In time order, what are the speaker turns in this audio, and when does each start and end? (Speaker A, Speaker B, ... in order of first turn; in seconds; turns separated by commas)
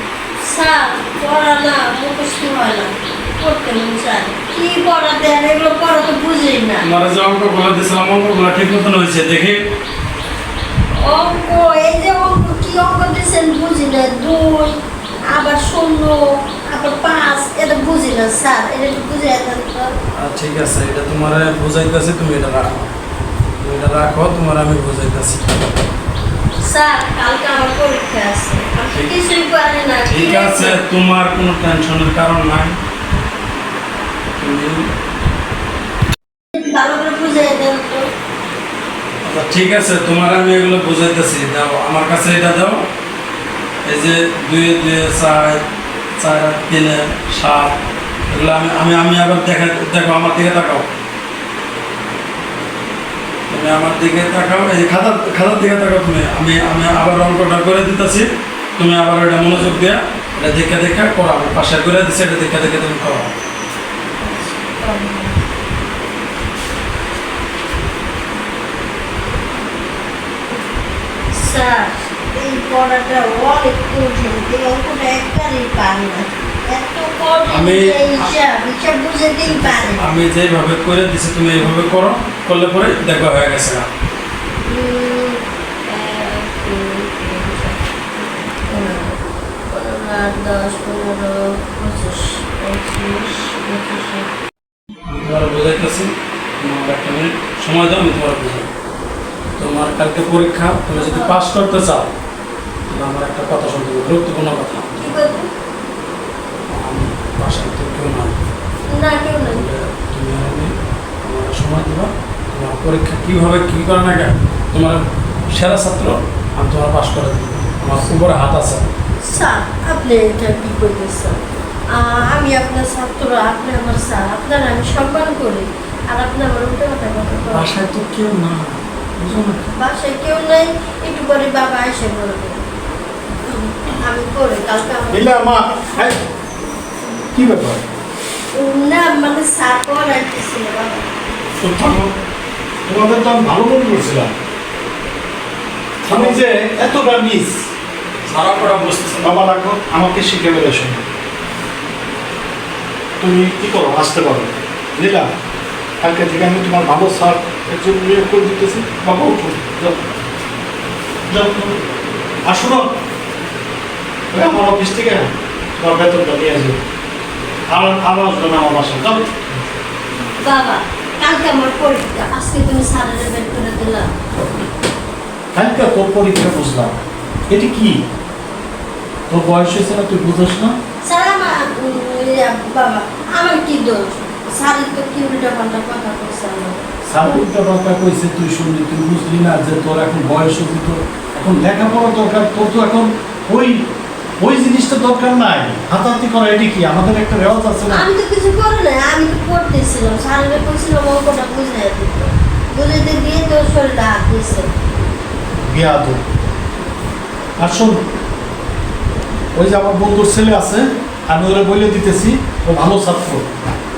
Speaker A: 0.4-6.8, Speaker B: 6.8-9.6, Speaker A: 10.9-14.8, Speaker A: 15.3-19.9, Speaker B: 20.2-22.9, Speaker B: 23.6-25.7, Speaker A: 26.6-30.8, Speaker B: 30.0-32.8, Speaker B: 34.4-34.9, Speaker A: 36.5-38.0, Speaker B: 39.2-42.8, Speaker B: 43.8-45.6, Speaker B: 46.2-50.9, Speaker B: 53.5-63.3, Speaker A: 64.2-65.4, Speaker A: 71.3-80.2, Speaker B: 77.5-78.4, Speaker B: 79.4-83.9, Speaker A: 84.7-87.8, Speaker A: 88.7-94.3, Speaker B: 95.0-98.7, Speaker B: 99.6-102.1, Speaker A: 100.9-101.4, Speaker B: 102.9-105.1, Speaker A: 105.0-105.5, Speaker B: 106.7-108.5, Speaker A: 108.9-109.6, Speaker B: 109.5-110.7, Speaker B: 111.2-118.8, Speaker A: 119.2-127.7, Speaker B: 127.5-129.7, Speaker A: 129.7-132.6, Speaker A: 133.4-135.3, Speaker C: 135.1-136.2, Speaker C: 137.3-137.8, Speaker A: 138.5-141.1, Speaker B: 141.6-142.1, Speaker C: 142.8-144.3, Speaker B: 146.0-146.4, Speaker C: 146.1-147.6, Speaker B: 148.2-149.3, Speaker C: 149.2-151.0, Speaker C: 153.2-155.3, Speaker C: 156.0-160.0, Speaker C: 161.3-161.8, Speaker C: 162.4-162.9, Speaker C: 164.3-166.8, Speaker C: 167.7-169.4, Speaker A: 170.4-174.1, Speaker C: 175.5-177.0, Speaker C: 177.5-178.0, Speaker C: 179.3-180.8, Speaker A: 181.0-187.4, Speaker C: 187.1-193.9, Speaker C: 194.4-198.1, Speaker A: 197.9-204.7, Speaker C: 205.6-206.2, Speaker C: 207.6-208.0, Speaker C: 209.5-213.4